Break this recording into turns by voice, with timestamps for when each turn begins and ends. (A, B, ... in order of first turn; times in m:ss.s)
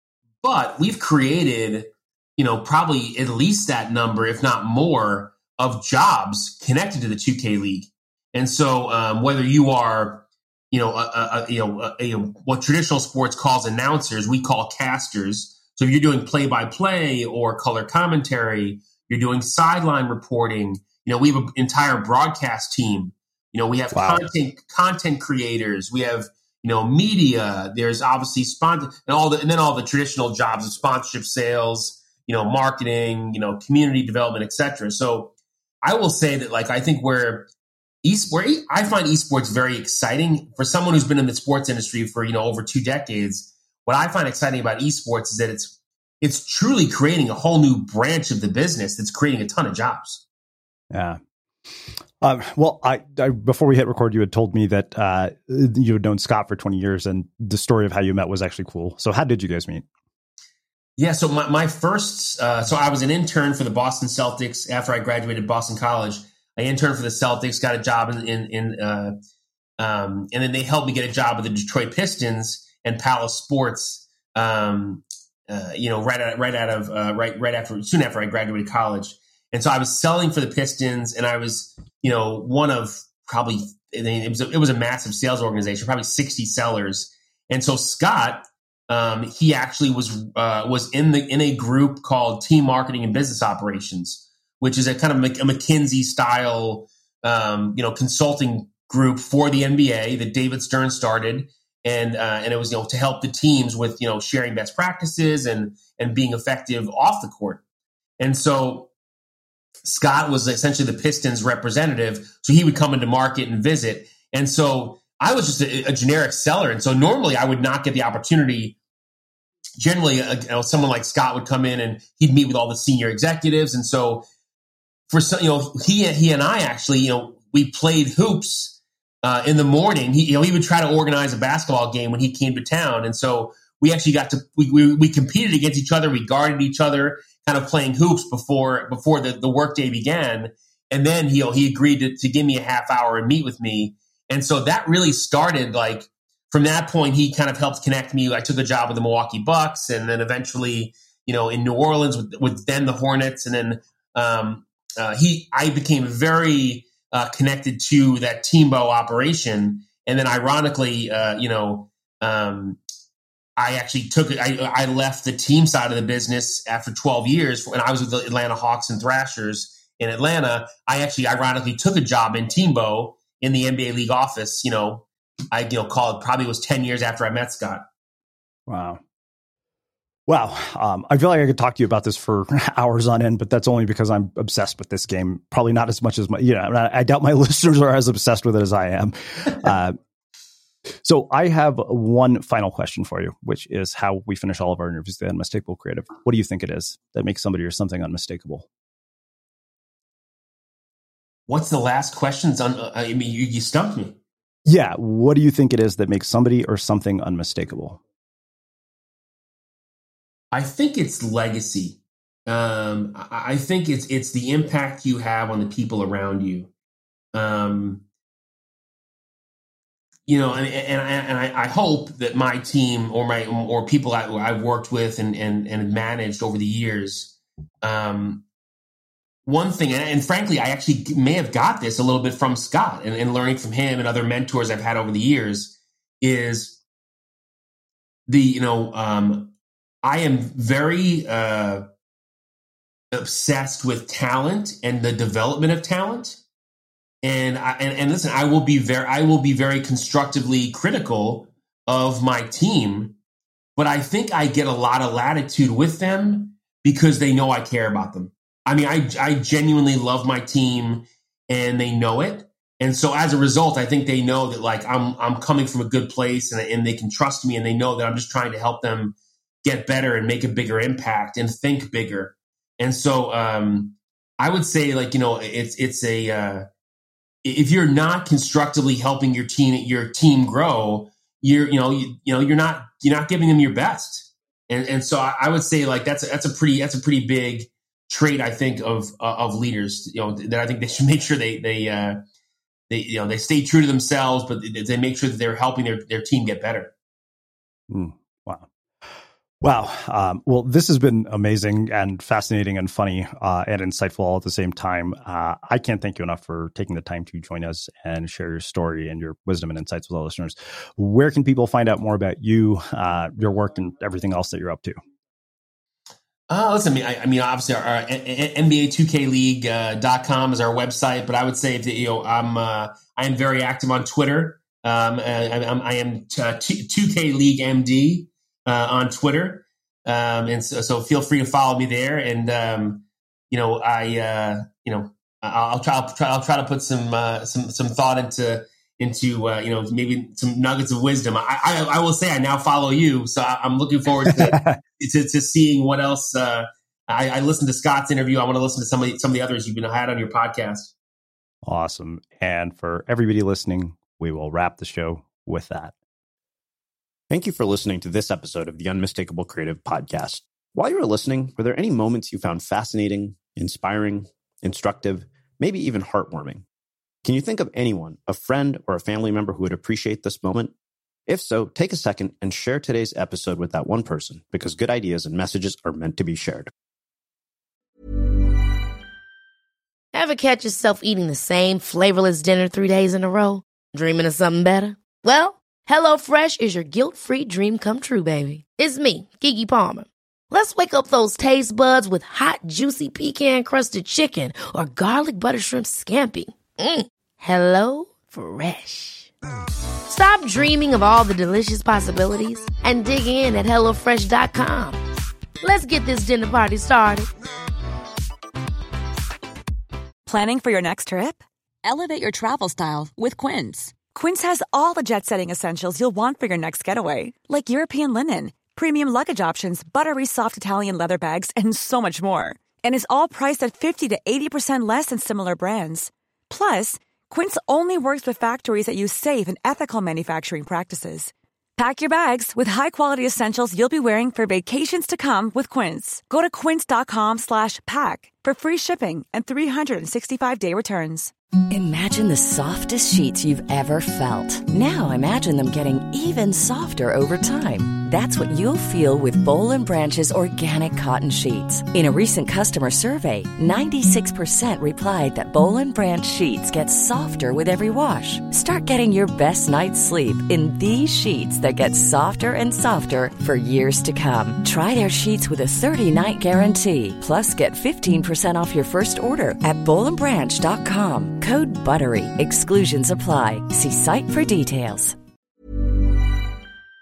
0:00.4-0:35.3 A
0:23.9-0:24.3 B
0:35.8-0:37.5 A
0:38.0-0:50.2 A
0:50.9-0:51.2 B
0:52.2-0:59.8 B
1:01.0-1:09.1 A
1:09.8-1:47.6 A
1:48.2-1:48.9 A
1:49.8-1:58.8 A
1:59.8-2:04.3 A
2:05.1-2:42.8 A
2:43.6-2:57.8 A
2:58.7-2:59.0 B
3:00.3-3:10.0 B
3:11.0-3:18.7 B
3:21.5-3:24.2 A
3:24.7-3:28.0 B
3:30.5-3:36.7 A
3:37.3-3:38.0 A
3:40.3-3:48.4 A
3:49.4-3:56.8 A
3:58.3-4:01.8 A
4:03.1-4:06.4 A
4:07.2-4:13.1 A
4:13.8-4:36.7 A
4:37.4-4:52.2 A
4:52.9-4:56.9 A
4:57.9-4:58.7 B
4:59.6-5:15.0 B
5:16.5-5:50.9 A
5:44.2-5:44.8 B
5:51.6-5:55.9 B
5:57.3-6:06.6 C
6:07.2-6:10.7 C
6:11.3-6:16.7 C
6:20.1-6:39.3 D
6:40.1-6:45.0 D
6:45.6-6:47.3 D
6:50.3-6:51.4 E
6:51.8-6:54.0 F
6:54.1-7:21.3 E
7:21.7-7:55.2 G